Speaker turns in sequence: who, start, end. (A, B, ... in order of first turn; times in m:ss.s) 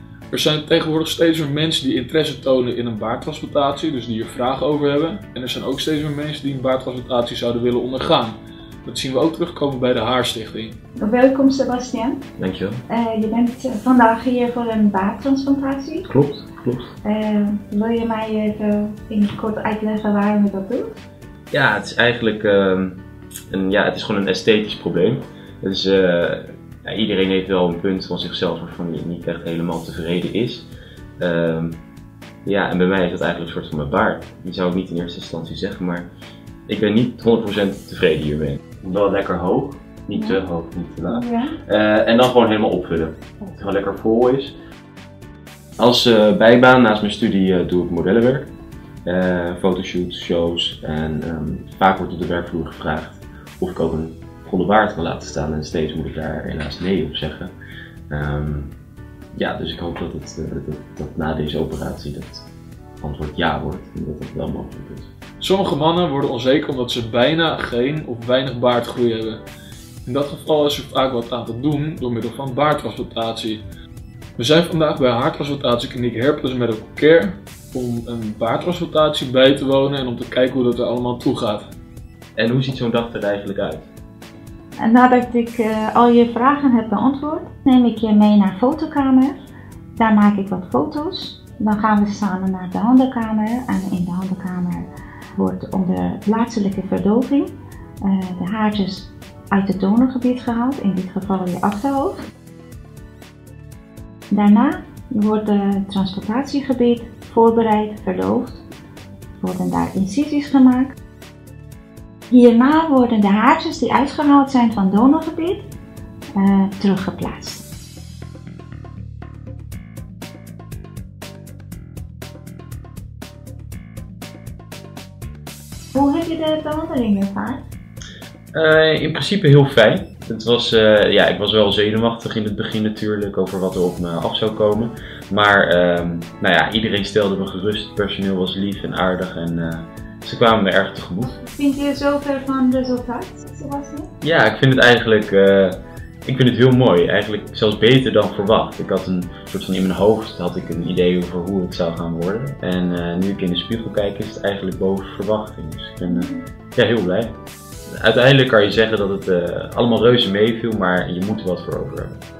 0:00.3-0:10.8 A
0:11.0-0:12.2 B
0:12.4-0:12.8 C
0:12.9-0:16.1 B
0:16.0-0:16.9 C
0:17.0-0:21.0 B
0:21.5-0:30.7 C
0:31.2-0:31.8 C
0:32.4-0:36.1 C
0:36.7-0:44.5 C
0:40.1-0:40.4 B
0:41.1-0:41.6 B
0:45.8-0:48.5 C
0:49.0-0:57.5 C
0:58.1-0:58.7 C
0:59.3-1:02.5 C
1:03.0-1:05.1 C
1:05.4-1:09.4 A
1:10.0-1:13.6 A
1:14.4-1:21.7 A
1:22.4-1:23.9 C
1:24.8-1:29.4 B
1:30.0-1:37.5 B
1:38.0-1:42.2 B
1:44.3-1:48.6 B
1:49.4-1:50.9 B
1:52.3-1:55.6 B
1:56.3-1:57.6 B
2:05.9-2:07.6 B
2:08.5-2:21.3 C
2:21.3-2:24.1 B
2:24.2-2:37.3 C
2:36.0-2:36.4 B
2:37.9-2:42.2 C